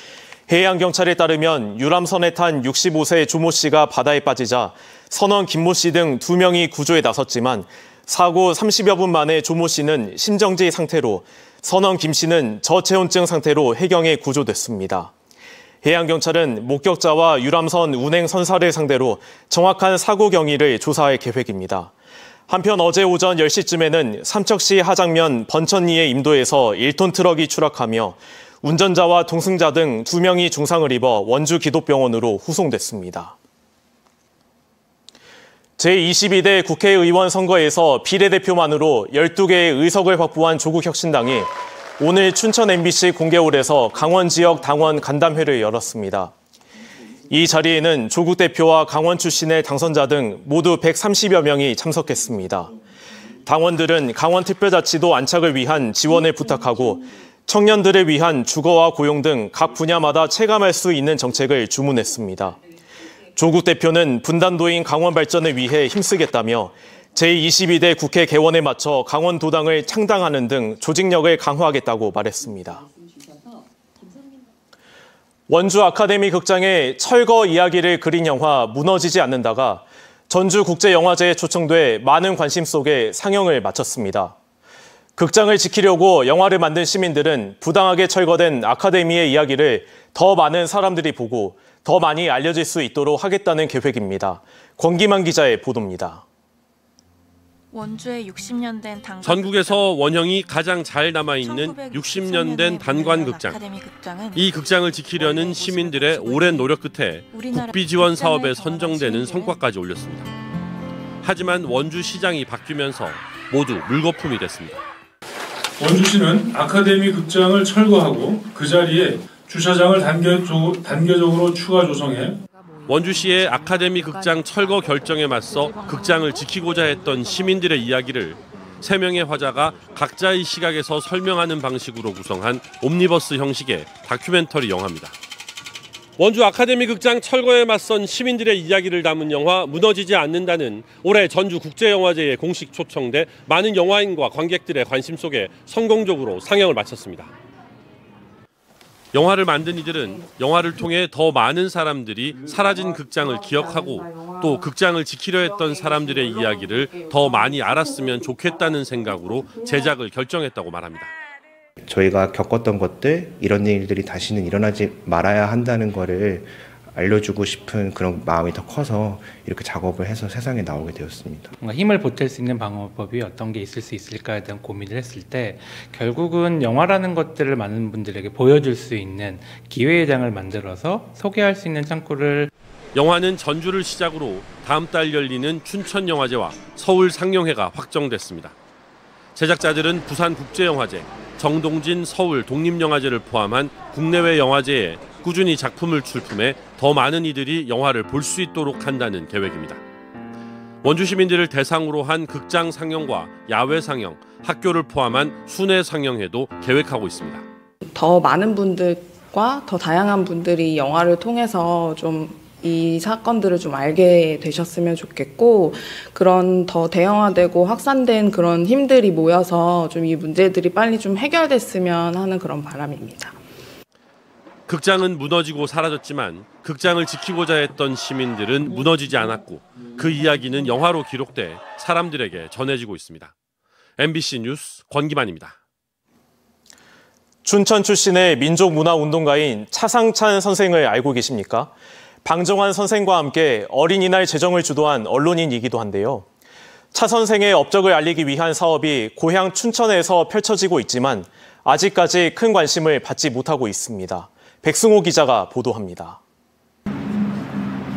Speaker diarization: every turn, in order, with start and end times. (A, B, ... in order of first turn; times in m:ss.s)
0:00.5-0:15.1 A
0:15.8-0:21.9 A
0:22.5-0:33.3 A
0:35.8-0:46.3 A
0:47.3-0:52.7 A
0:53.5-1:02.6 A
1:03.4-1:12.8 A
1:15.5-1:24.4 A
1:25.2-1:36.2 A
1:37.7-1:40.0 B
1:39.2-1:43.6 C
1:41.4-1:49.6 B
1:44.4-1:50.3 C
1:51.2-1:54.8 C
1:55.8-2:02.4 D
2:02.9-2:15.2 C
2:16.2-2:27.3 C
2:29.1-2:41.1 C
2:41.8-2:51.5 E
2:51.6-3:02.5 F
3:02.9-3:08.6 C
3:09.4-3:19.8 C
3:20.8-3:27.4 C
3:27.8-3:43.4 G
3:44.7-3:53.3 C
3:54.0-3:55.6 C
3:57.4-4:01.7 A
4:02.2-4:06.3 A
4:06.9-4:16.2 A